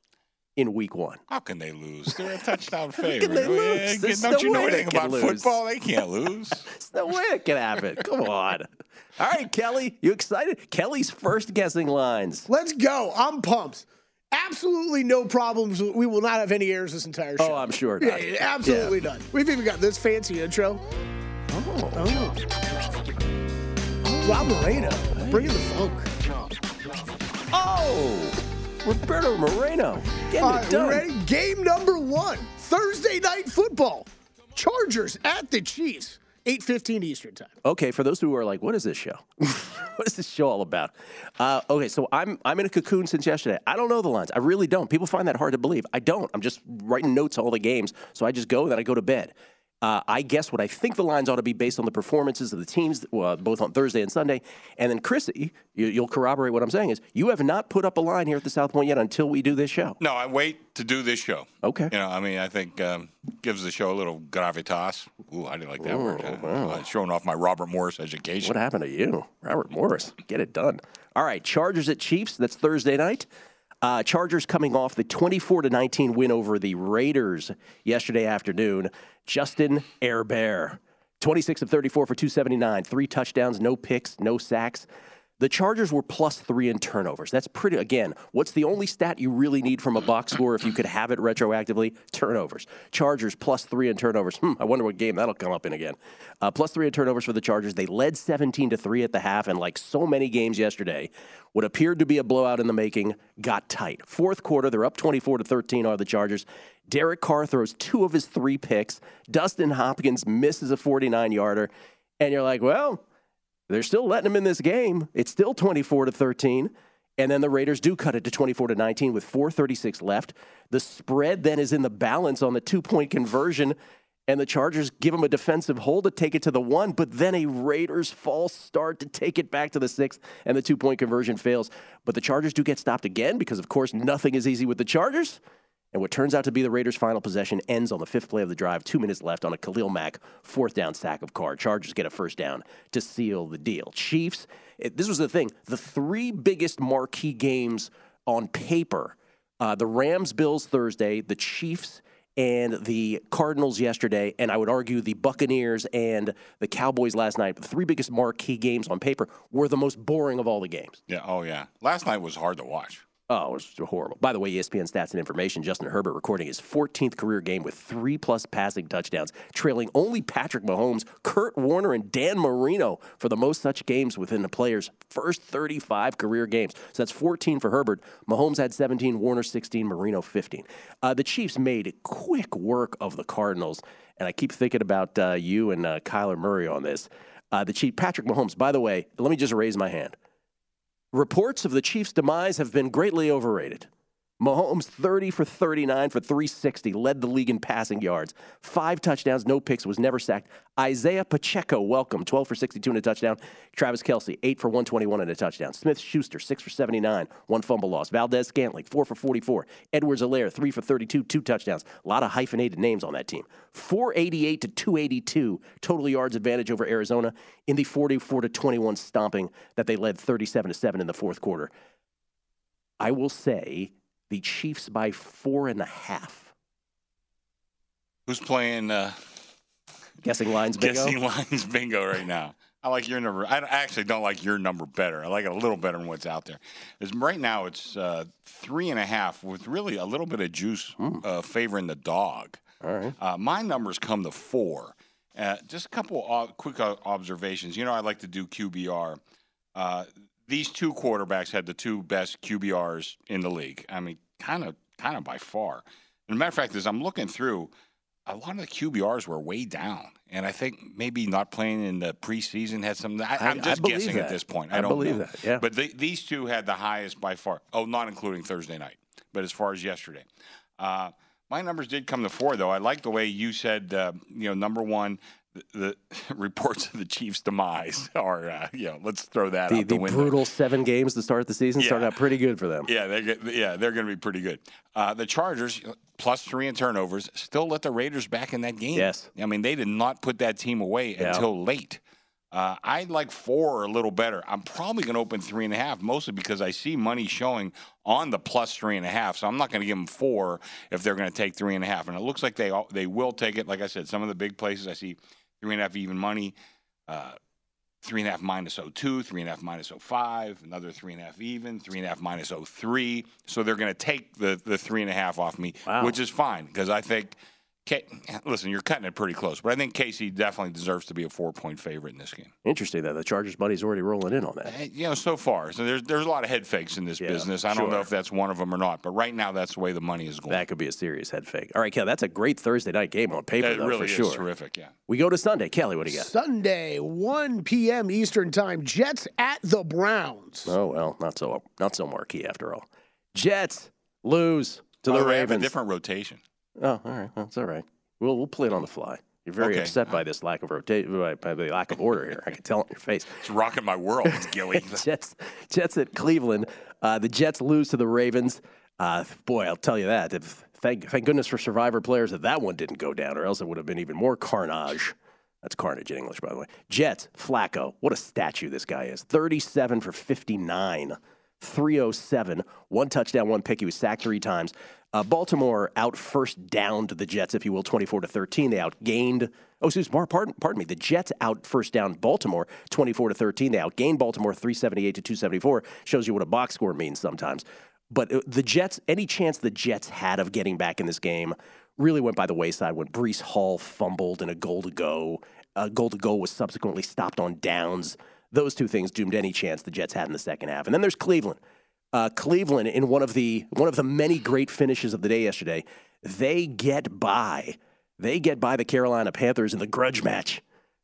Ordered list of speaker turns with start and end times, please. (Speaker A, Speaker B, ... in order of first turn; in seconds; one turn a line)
Speaker A: 0.6-1.2
Speaker B: 1.3-6.7
Speaker A: 3.0-5.5
Speaker A: 6.7-12.5
Speaker C: 12.5-20.8
Speaker A: 17.4-19.0
Speaker A: 21.5-22.2
Speaker C: 21.9-22.4
Speaker A: 24.0-25.6
Speaker C: 24.2-26.1
Speaker C: 27.5-27.9
Speaker A: 27.6-31.1
Speaker C: 30.4-37.5
Speaker A: 37.6-60.0
Speaker B: 60.0-68.5
Speaker A: 61.6-61.9
Speaker A: 65.8-66.8
Speaker A: 68.4-73.3
Speaker A: 73.8-84.8
Speaker A: 85.4-113.0
Speaker A: 113.7-123.8
Speaker A: 124.3-135.4
Speaker A: 135.9-161.0
Speaker B: 161.1-163.0
Speaker A: 163.3-190.2
Speaker A: 191.1-193.9
Speaker A: 194.4-221.7
Speaker A: 223.0-226.5
Speaker B: 228.3-229.2
Speaker A: 230.2-231.1
Speaker B: 230.8-242.6
Speaker A: 242.8-243.1
Speaker B: 243.2-249.2
Speaker B: 249.8-257.7
Speaker B: 258.2-270.2
Speaker A: 263.4-265.6
Speaker B: 270.8-280.4
Speaker A: 279.7-282.9
Speaker B: 281.8-282.1
Speaker B: 282.9-292.0
Speaker A: 288.9-289.3
Speaker A: 291.2-291.4
Speaker B: 292.5-306.5
Speaker B: 307.1-307.4
Speaker B: 308.0-317.3
Speaker A: 315.9-316.1
Speaker B: 317.9-322.5
Speaker A: 322.6-324.7
Speaker B: 324.6-330.6
Speaker A: 327.2-328.1
Speaker A: 330.5-334.4
Speaker B: 333.6-334.9
Speaker A: 335.1-336.3
Speaker C: 336.1-340.7
Speaker A: 340.6-345.7
Speaker B: 345.1-346.4
Speaker A: 346.8-353.4
Speaker B: 349.6-350.1
Speaker B: 353.4-355.1
Speaker A: 354.2-401.6
Speaker A: 402.1-410.6